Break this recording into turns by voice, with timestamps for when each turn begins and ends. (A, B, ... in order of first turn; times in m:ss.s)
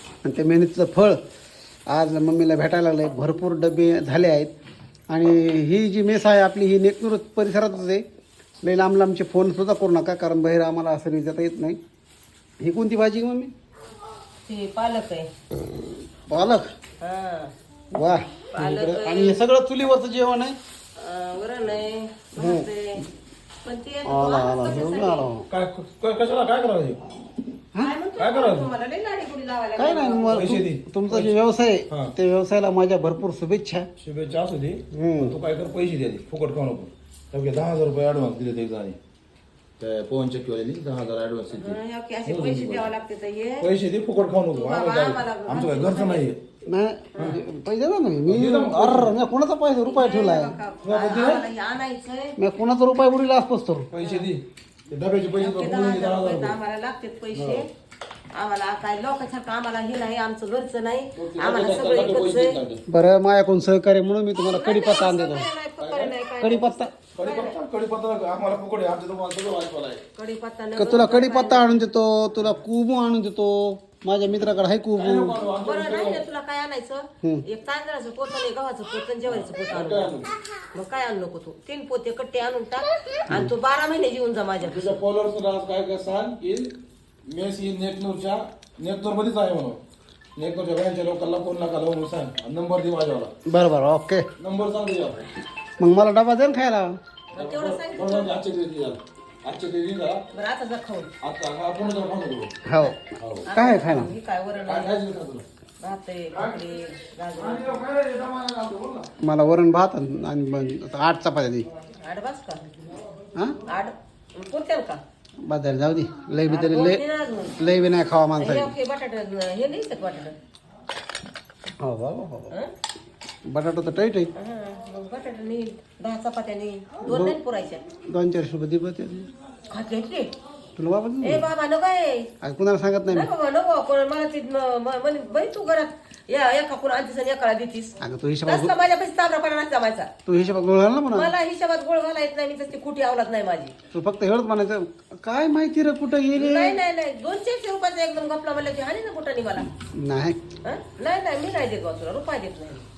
0:00.2-0:01.2 A
0:01.9-0:04.5 A
0:05.1-0:08.0 A
0:08.6-0:11.8 A
0:12.6-0:13.5 A
0:14.5-0:15.3 B
0:16.1-0:16.7 A
0:17.0-0:17.5 B
0:17.9-0:20.6 A
0:18.5-0:19.4 B
0:21.0-0:23.0 B
0:22.4-0:22.7 A
0:23.6-0:25.2 B
0:24.0-0:25.5 A
0:25.5-0:27.0 C
0:27.8-0:30.5 B
0:28.2-0:28.7 C
0:29.8-0:33.9 A
0:30.3-0:31.3 C
0:34.0-0:39.0 C
0:34.9-0:35.4 A
0:39.8-0:42.9 C
0:41.5-0:43.7 B
0:43.6-0:46.4 C
0:44.5-0:46.3 B
0:46.7-0:50.6 A
0:48.3-0:49.2 C
0:49.8-0:52.4 B
0:50.8-0:51.4 C
0:52.4-0:53.9 A
0:53.9-0:56.5 C
0:54.0-0:54.3 B
0:55.3-0:57.7 B
0:57.3-0:57.6 C
0:58.3-1:02.6 B
1:01.1-1:02.8 C
1:02.9-1:05.4 A
1:04.5-1:07.6 B
1:05.8-1:06.1 C
1:06.4-1:06.9 A
1:07.2-1:10.0 C
1:10.2-1:11.8 B
1:10.8-1:15.4 A
1:14.9-1:16.2 C
1:15.6-1:25.0 B
1:19.3-1:20.3 C
1:24.6-1:26.7 C
1:27.2-1:29.8 C
1:30.4-1:33.3 C
1:33.5-1:34.3 A
1:34.4-1:35.3 C
1:35.8-1:37.0 A
1:37.3-1:38.4 B
1:37.3-1:40.2 C
1:40.3-1:41.1 B
1:41.2-1:42.5 C
1:42.6-1:44.1 A
1:42.8-1:45.0 B
1:43.2-1:43.5 C
1:44.6-1:45.4 C
1:45.8-1:47.8 B
1:46.3-1:46.6 C
1:47.4-1:49.1 C
1:49.2-1:51.7 A
1:52.0-1:52.6 B
1:53.6-1:55.0 B
1:55.4-1:57.0 A
1:56.5-1:57.6 B
1:57.6-1:58.7 A
1:58.4-2:00.3 B
2:01.8-2:02.5 A
2:03.5-2:04.3 A
2:04.3-2:07.8 B
2:07.0-2:07.4 A
2:08.0-2:09.3 A
2:09.7-2:10.3 B
2:10.8-2:11.4 A
2:11.2-2:12.3 B
2:12.4-2:13.3 A
2:13.1-2:17.9 B
2:18.0-2:18.7 A
2:18.4-2:20.1 B
2:20.2-2:21.3 A
2:21.1-2:23.7 B
2:23.9-2:26.8 A
2:26.4-2:29.7 B
2:29.7-2:30.4 A
2:30.6-2:32.9 B